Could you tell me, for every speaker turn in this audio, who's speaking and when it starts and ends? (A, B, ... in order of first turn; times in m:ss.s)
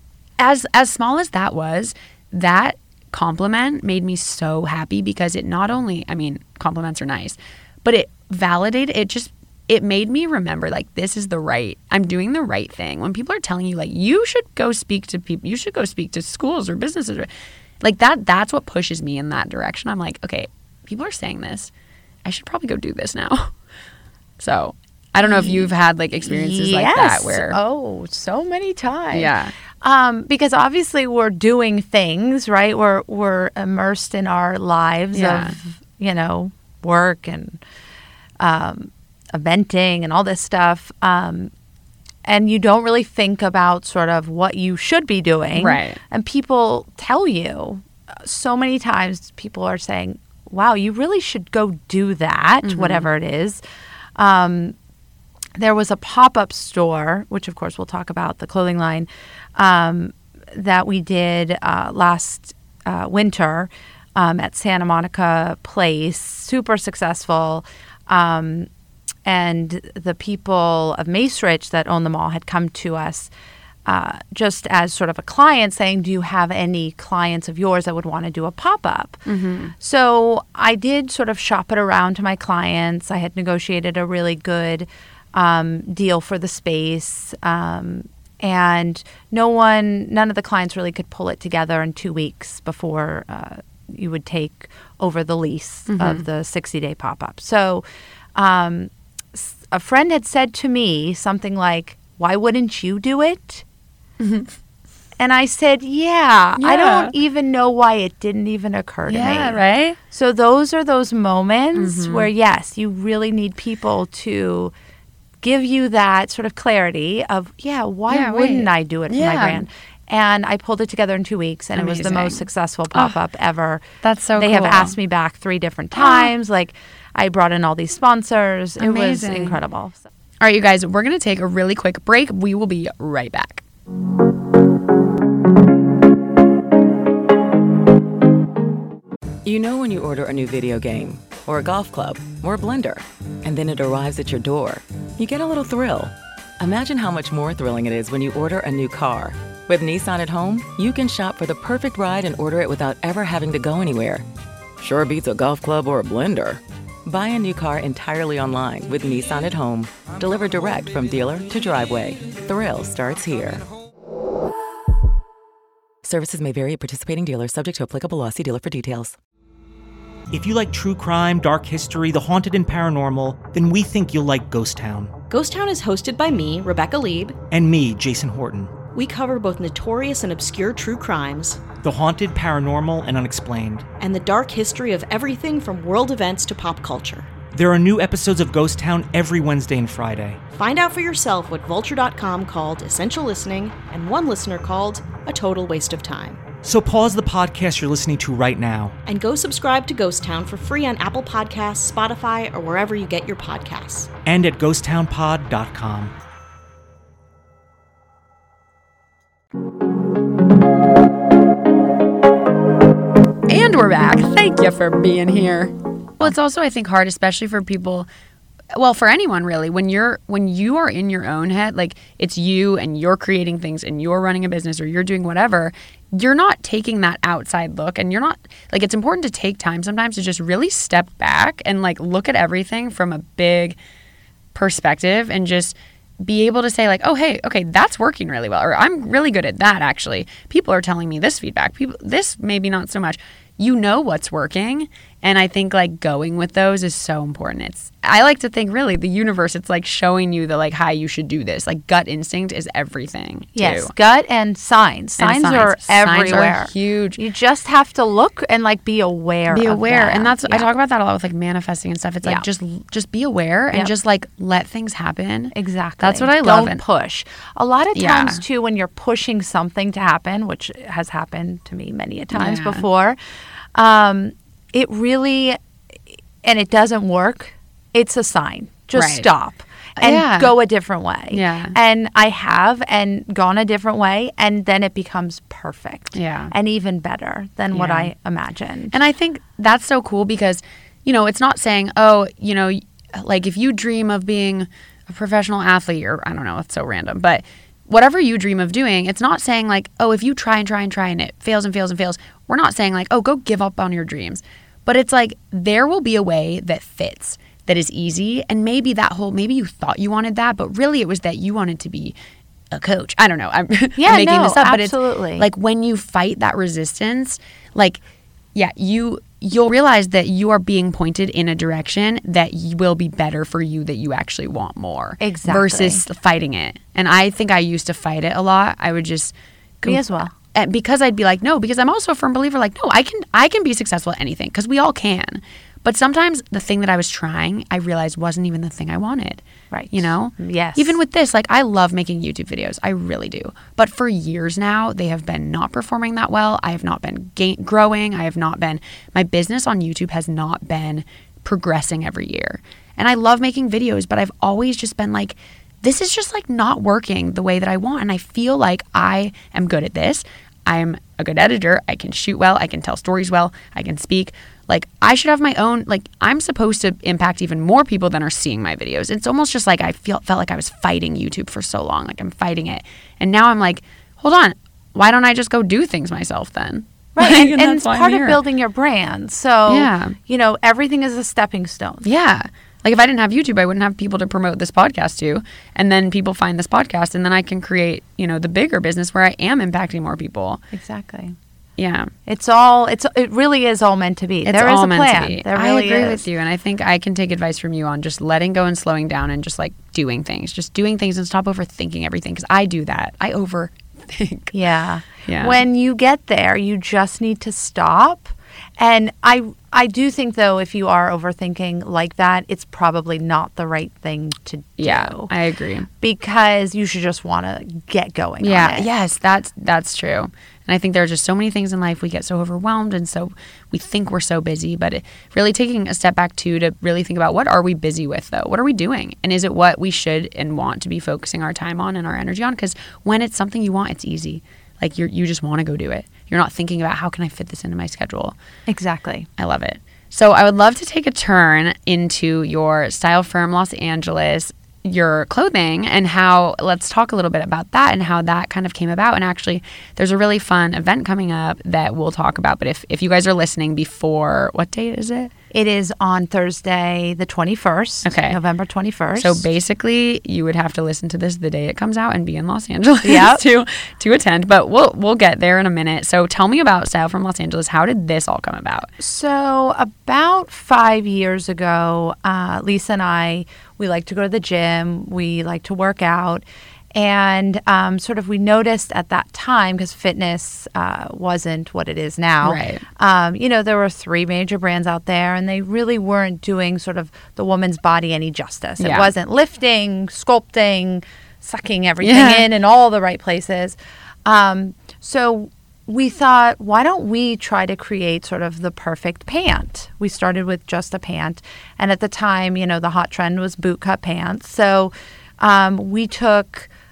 0:00.4-0:17.3 A
0:17.8-0:21.7 A
0:22.2-0:23.5 A
0:24.4-0:27.6 A
0:25.2-0:25.7 B
0:26.2-0:37.6 B
0:29.1-0:29.5 A
0:35.1-0:35.5 A
0:38.4-0:41.5 B
0:42.2-0:53.6 B
0:45.5-0:46.0 A
0:52.6-0:53.1 A
0:54.2-0:54.7 B
0:55.6-1:08.7 B
1:09.2-1:13.3 B
1:13.8-1:19.2 B
1:19.2-1:19.7 A
1:19.8-1:37.8 B
1:35.9-1:36.2 A
1:38.4-1:43.6 B
1:44.2-1:44.5 A
1:45.2-1:54.7 B
1:46.6-1:47.1 A
1:49.1-1:50.0 A
1:51.8-1:52.3 A
1:55.4-2:03.8 B
1:58.1-1:59.6 A
2:01.8-2:03.2 A
2:04.0-2:05.0 A
2:04.4-2:10.0 B
2:05.9-2:06.3 A
2:08.8-2:09.6 A
2:10.4-2:13.6 A
2:19.4-2:34.2 C
2:34.8-2:43.7 C
2:46.0-2:49.2 C
2:50.3-2:55.2 D
2:55.3-2:57.4 E
2:57.5-2:58.8 D
2:58.9-3:01.7 E
3:01.7-3:03.8 D
3:04.0-3:07.3 E
3:07.5-3:10.4 D
3:10.5-3:16.5 E
3:16.6-3:19.0 D
3:19.0-3:24.1 E
3:24.2-3:26.1 D
3:33.5-3:38.1 A
3:38.7-3:53.8 A
3:54.5-4:13.9 A
4:13.6-4:20.7 B
4:15.2-4:17.2 A
4:19.5-4:26.8 A
4:25.5-4:33.2 B
4:27.9-4:28.4 A
4:32.3-4:32.8 A
4:33.7-4:35.6 B
4:36.4-4:48.9 B
4:39.0-4:39.3 A
4:40.0-4:40.5 A
4:41.3-4:41.7 A
4:46.1-4:46.5 A
4:47.7-4:48.1 A
4:48.9-5:12.1 A
5:12.7-5:18.0 A
5:14.0-5:15.5 B
5:18.5-6:18.4 A
5:25.2-5:26.0 B
5:29.8-5:30.3 B
5:39.7-5:41.0 B
6:17.1-6:22.0 B
6:19.7-6:20.2 A
6:22.0-6:30.6 A
6:30.7-6:31.4 B
6:31.8-6:32.1 A
6:32.2-6:36.3 B
6:34.4-6:44.5 A
6:44.5-6:55.3 B
6:45.2-6:45.6 A
6:54.8-6:55.9 A
6:56.0-6:58.9 B
6:58.4-7:18.3 A
7:18.7-7:19.3 B
7:19.4-7:35.3 A
7:35.5-7:39.4 B
7:38.0-7:38.4 A
7:39.2-7:48.9 A
7:43.0-7:43.4 B
7:49.0-8:26.7 B
8:02.4-8:02.8 A
8:08.8-8:09.1 A
8:12.0-8:12.5 A